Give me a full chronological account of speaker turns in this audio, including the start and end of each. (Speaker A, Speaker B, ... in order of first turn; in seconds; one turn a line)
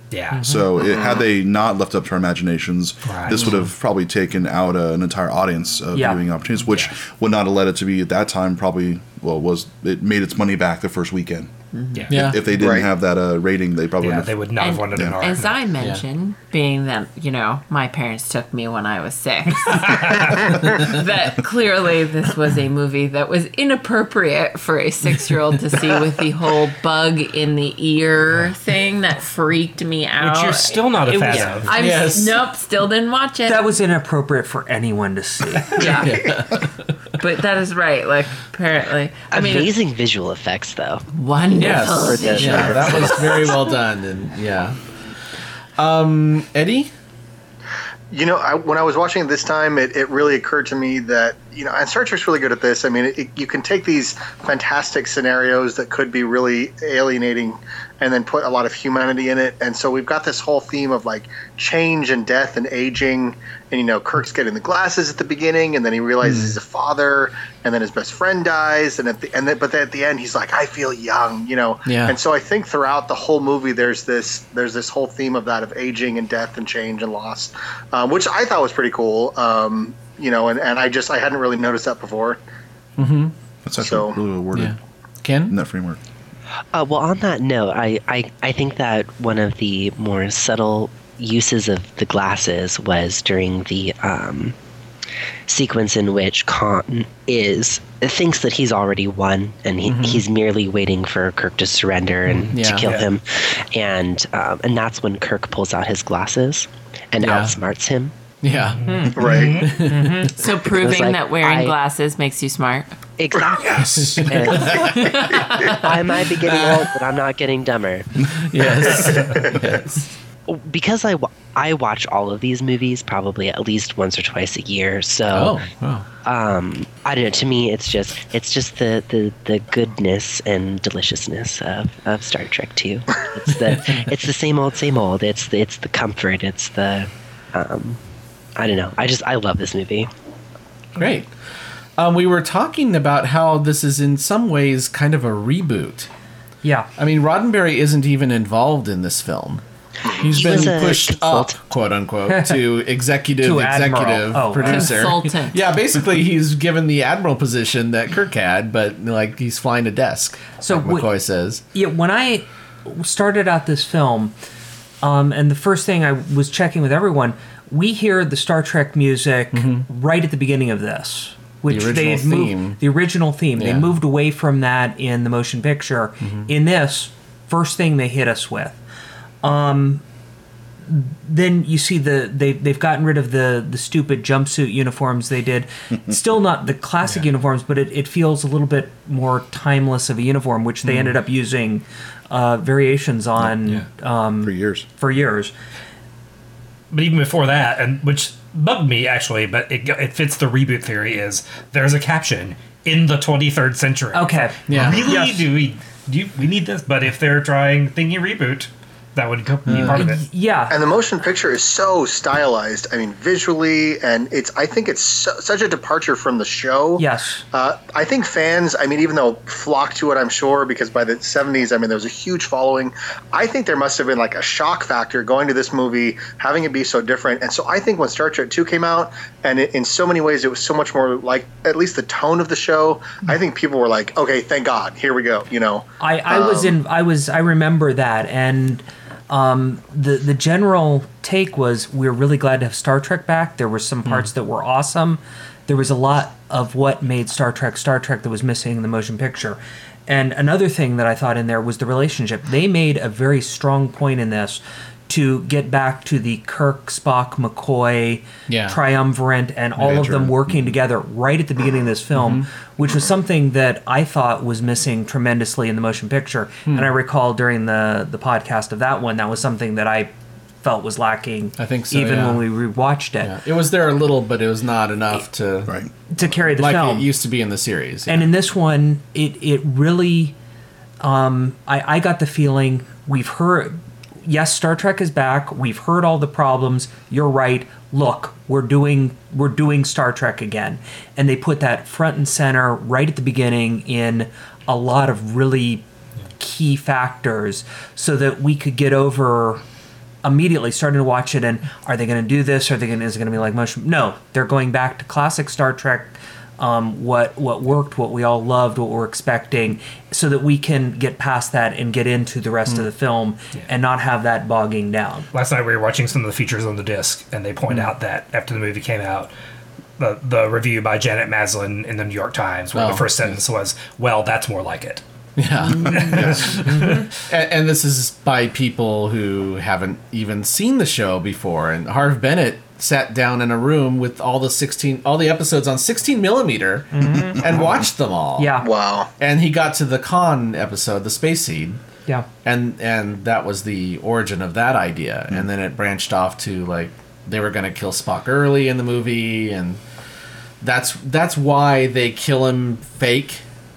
Speaker A: 0.1-0.6
Speaker B: 0.3-0.7
Speaker C: 0.4-11.5
Speaker A: 3.0-3.6
Speaker D: 3.3-3.7
Speaker B: 5.9-6.2
Speaker A: 11.9-12.3
Speaker D: 12.1-12.4
Speaker C: 12.1-14.3
Speaker E: 12.5-12.9
Speaker A: 14.0-15.6
Speaker F: 14.6-33.7
Speaker C: 14.9-15.2
Speaker A: 19.6-20.9
Speaker A: 30.2-31.7
Speaker B: 31.1-31.5
Speaker G: 31.3-31.6
Speaker D: 31.7-32.4
Speaker B: 33.5-36.1
Speaker F: 35.7-36.1
Speaker D: 35.8-36.9
Speaker F: 37.2-39.8
Speaker G: 39.3-41.0
Speaker F: 41.1-43.6
Speaker D: 41.5-44.8
Speaker G: 42.0-43.5
Speaker D: 45.8-46.9
Speaker E: 48.1-82.4
Speaker D: 66.2-66.6
Speaker D: 71.8-72.2
Speaker D: 83.0-83.3
Speaker C: 83.6-84.8
Speaker E: 83.8-84.2
Speaker D: 84.5-85.5
Speaker C: 85.5-86.0
Speaker G: 86.7-94.5
Speaker G: 95.5-108.1
Speaker D: 99.8-100.2
Speaker A: 102.3-103.1
Speaker D: 102.5-102.9
Speaker D: 107.2-107.6
Speaker D: 108.4-108.8
Speaker A: 108.7-109.8
Speaker B: 108.8-110.4
Speaker E: 109.1-109.7
Speaker D: 109.5-110.3
Speaker F: 110.3-112.9
Speaker G: 110.7-111.7
Speaker G: 113.2-118.4
Speaker C: 113.6-114.3
Speaker D: 113.8-115.2
Speaker F: 114.8-115.9
Speaker D: 116.4-116.9
Speaker D: 118.3-120.0
Speaker A: 119.0-119.5
Speaker G: 120.5-125.6
Speaker D: 125.3-126.1
Speaker G: 126.2-138.0
Speaker D: 133.7-134.1
Speaker G: 138.6-140.1
Speaker D: 141.0-141.3
Speaker D: 142.0-146.1
Speaker B: 146.6-146.9
Speaker D: 147.0-161.6
Speaker G: 150.1-151.6
Speaker B: 152.3-152.8
Speaker B: 153.4-155.0
Speaker F: 154.6-155.6
Speaker B: 160.6-161.1
Speaker B: 161.7-164.3
Speaker B: 165.0-178.8
Speaker D: 169.5-169.9
Speaker D: 171.7-172.8
Speaker D: 173.6-173.9
Speaker D: 176.2-176.5
Speaker B: 179.4-180.0
Speaker B: 180.9-195.5
Speaker C: 194.4-194.8
Speaker A: 196.9-210.2
Speaker B: 204.1-205.5
Speaker D: 204.7-205.1
Speaker D: 209.7-210.1
Speaker B: 209.9-210.8
Speaker E: 210.7-236.7
Speaker B: 217.0-217.4
Speaker B: 236.0-273.3
Speaker D: 258.5-258.8
Speaker D: 259.8-260.2
Speaker C: 259.9-260.3
Speaker D: 262.1-262.5
Speaker D: 266.6-266.9
Speaker D: 271.6-272.4
Speaker D: 273.2-275.8
Speaker B: 276.1-277.1
Speaker D: 276.5-278.3
Speaker B: 278.1-280.3
Speaker B: 281.0-295.8
Speaker B: 296.4-299.6
Speaker B: 300.2-315.3
Speaker A: 315.3-319.3
Speaker A: 320.0-325.0
Speaker D: 322.7-323.4
Speaker D: 325.4-338.5
Speaker A: 325.8-327.1
Speaker C: 325.8-326.6
Speaker B: 326.6-327.1
Speaker B: 336.9-337.7
Speaker B: 338.4-338.7
Speaker E: 338.6-339.1
Speaker D: 339.2-341.8
Speaker D: 342.4-349.8
Speaker D: 350.6-353.4